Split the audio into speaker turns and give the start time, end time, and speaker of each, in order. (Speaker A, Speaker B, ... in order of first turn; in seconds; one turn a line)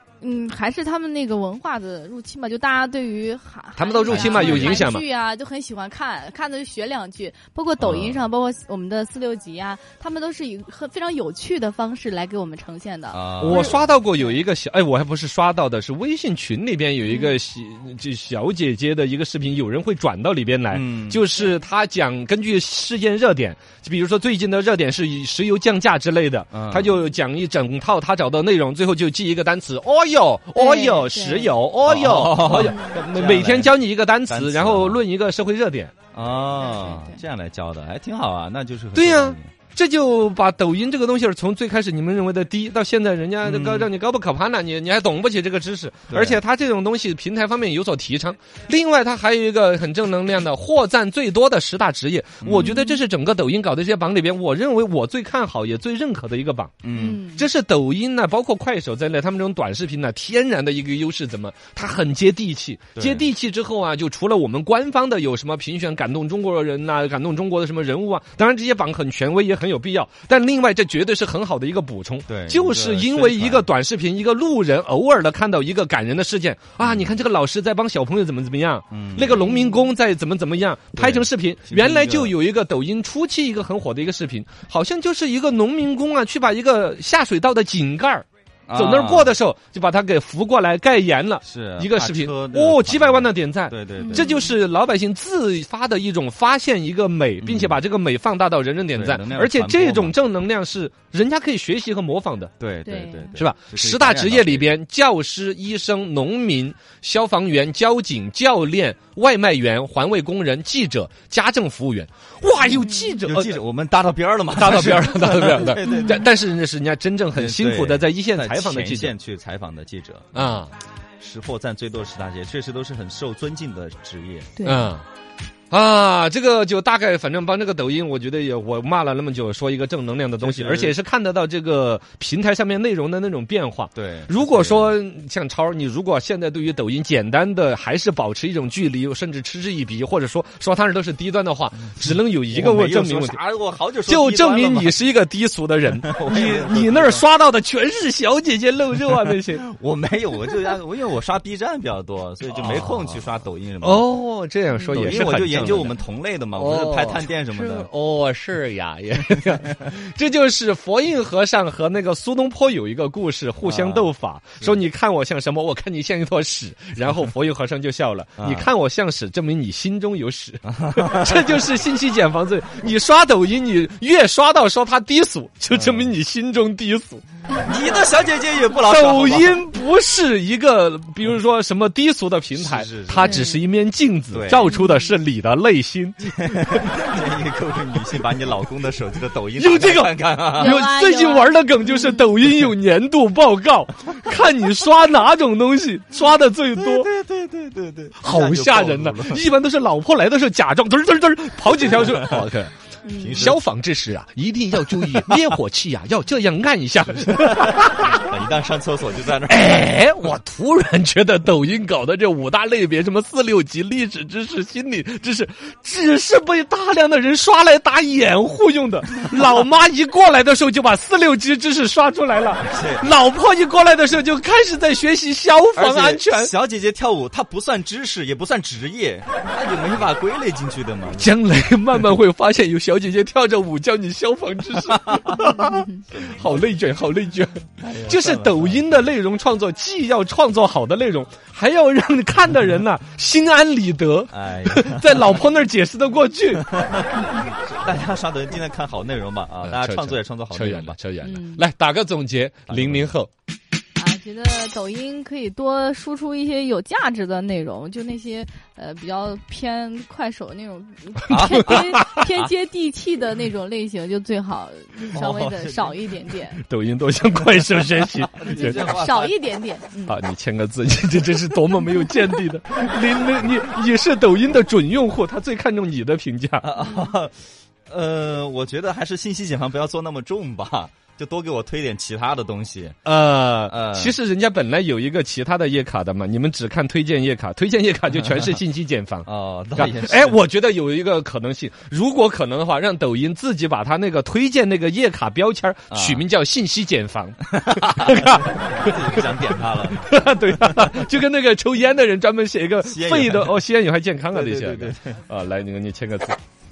Speaker A: 0.2-14.4
Speaker B: 3.8-5.0
Speaker C: 4.1-4.9
Speaker C: 7.8-8.2
Speaker C: 13.1-13.8
Speaker B: 13.4-35.9
Speaker A: 17.1-17.3
Speaker C: 20.7-21.2
Speaker C: 26.5-26.9
Speaker A: 30.5-31.5
Speaker C: 31.8-33.8
Speaker A: 32.5-33.0
Speaker C: 34.3-35.0
Speaker C: 36.1-39.5
Speaker A: 36.6-37.2
Speaker B: 38.9-56.8
Speaker C: 43.4-43.9
Speaker C: 46.1-46.4
Speaker C: 52.4-52.7
Speaker A: 52.5-53.0
Speaker C: 56.8-57.2
Speaker A: 56.9-57.5
Speaker B: 57.4-102.5
Speaker C: 63.0-63.3
Speaker C: 72.3-73.7
Speaker C: 76.8-77.1
Speaker C: 78.9-79.5
Speaker A: 79.4-79.9
Speaker C: 80.9-82.3
Speaker C: 88.7-89.3
Speaker C: 91.4-94.4
Speaker A: 94.0-94.5
Speaker C: 97.4-97.8
Speaker C: 98.9-100.2
Speaker C: 102.6-104.7
Speaker A: 102.8-103.3
Speaker B: 103.3-113.6
Speaker A: 112.8-113.1
Speaker C: 113.2-116.2
Speaker B: 114.5-119.1
Speaker A: 115.8-116.2
Speaker C: 117.3-120.6
Speaker B: 120.3-120.7
Speaker C: 121.2-124.6
Speaker A: 124.6-124.9
Speaker B: 124.6-125.0
Speaker B: 125.7-143.4
Speaker C: 130.4-130.9
Speaker C: 133.9-134.9
Speaker C: 142.5-144.9
Speaker B: 144.1-149.7
Speaker C: 146.0-147.2
Speaker C: 149.6-154.1
Speaker B: 152.5-153.2
Speaker B: 153.8-155.9
Speaker A: 154.8-155.0
Speaker C: 154.9-157.9
Speaker B: 156.6-177.2
Speaker C: 159.3-159.8
Speaker C: 163.6-164.8
Speaker C: 168.4-168.7
Speaker C: 170.7-171.7
Speaker C: 175.7-176.1
Speaker C: 177.6-179.6
Speaker B: 178.8-186.9
Speaker C: 182.5-183.4
Speaker A: 183.2-183.6
Speaker C: 184.3-184.7
Speaker A: 184.7-185.1
Speaker C: 186.3-190.8
Speaker B: 189.6-197.1
Speaker A: 190.6-192.3
Speaker C: 196.7-199.5
Speaker B: 198.2-202.7
Speaker C: 201.8-202.5
Speaker A: 203.0-203.5
Speaker C: 203.1-203.6
Speaker B: 203.3-208.3
Speaker C: 207.3-209.9
Speaker B: 209.5-226.5
Speaker C: 222.6-223.1
Speaker C: 225.7-231.3
Speaker B: 231.2-246.7
Speaker C: 235.1-235.3
Speaker C: 236.1-236.7
Speaker C: 237.8-239.1
Speaker C: 244.3-245.4
Speaker C: 246.5-251.0
Speaker B: 249.6-253.3
Speaker A: 251.2-251.6
Speaker C: 252.7-253.1
Speaker A: 253.9-266.6
Speaker C: 261.3-262.5
Speaker B: 261.4-262.1
Speaker C: 265.1-266.0
Speaker B: 266.6-268.9
Speaker C: 268.3-269.4
Speaker A: 268.5-270.1
Speaker B: 270.1-276.7
Speaker C: 276.6-283.0
Speaker A: 276.8-277.1
Speaker B: 283.1-306.4
Speaker C: 283.7-284.2
Speaker C: 288.1-288.6
Speaker C: 289.2-290.4
Speaker C: 295.9-296.2
Speaker C: 297.5-300.9
Speaker C: 302.8-303.6
Speaker C: 304.3-305.2